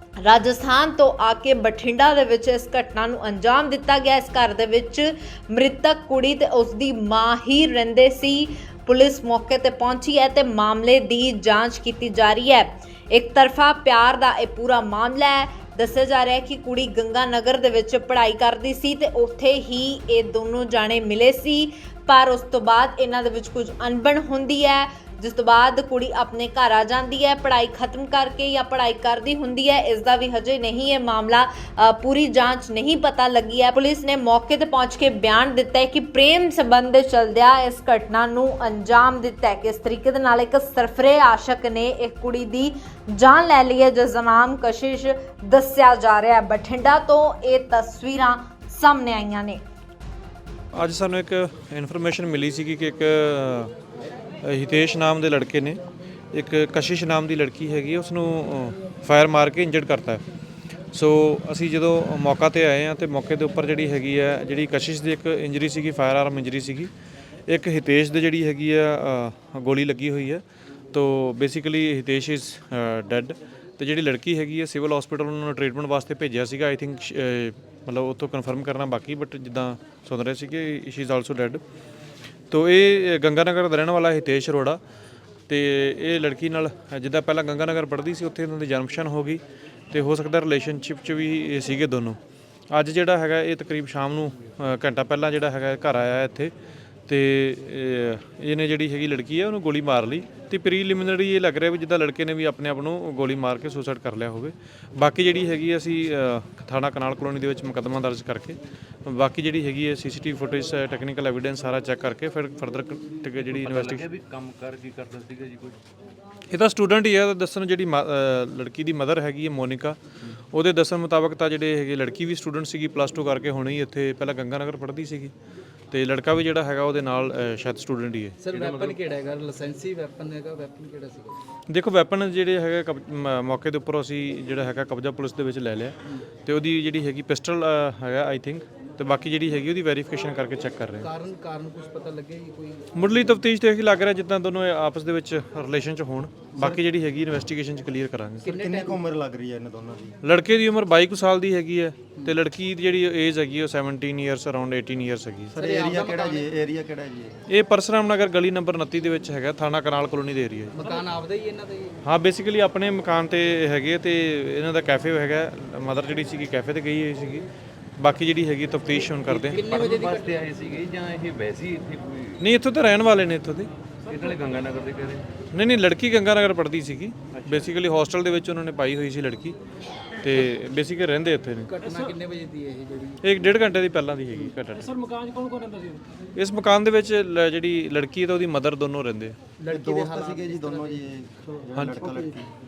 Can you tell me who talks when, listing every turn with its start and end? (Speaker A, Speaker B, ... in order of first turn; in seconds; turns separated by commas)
Speaker A: 0.2-49.6, Speaker B: 50.7-53.7, Speaker B: 54.4-55.8, Speaker B: 56.3-60.2, Speaker B: 60.9-66.9, Speaker B: 67.5-81.6, Speaker B: 82.5-84.8, Speaker B: 85.5-92.2, Speaker B: 92.7-96.5, Speaker B: 97.1-114.1, Speaker C: 113.5-115.8, Speaker B: 116.5-120.0, Speaker B: 120.5-125.3, Speaker B: 125.9-128.4, Speaker D: 128.4-131.4, Speaker C: 128.5-129.0, Speaker B: 131.7-141.1, Speaker D: 141.0-143.0, Speaker B: 142.9-148.5, Speaker D: 148.4-149.0, Speaker E: 148.5-150.2, Speaker B: 150.2-155.6, Speaker E: 155.5-157.4, Speaker D: 155.6-156.4, Speaker B: 157.5-160.8, Speaker D: 160.8-162.0, Speaker B: 162.1-167.4, Speaker B: 168.0-169.7, Speaker D: 169.2-170.8, Speaker C: 169.6-172.4, Speaker B: 172.4-173.7, Speaker C: 174.1-175.3, Speaker B: 175.5-179.6, Speaker C: 177.3-177.7, Speaker B: 180.2-181.7, Speaker D: 181.7-183.2, Speaker B: 183.2-185.1, Speaker B: 186.3-189.3, Speaker D: 189.6-191.0, Speaker E: 189.7-192.5, Speaker B: 191.8-192.1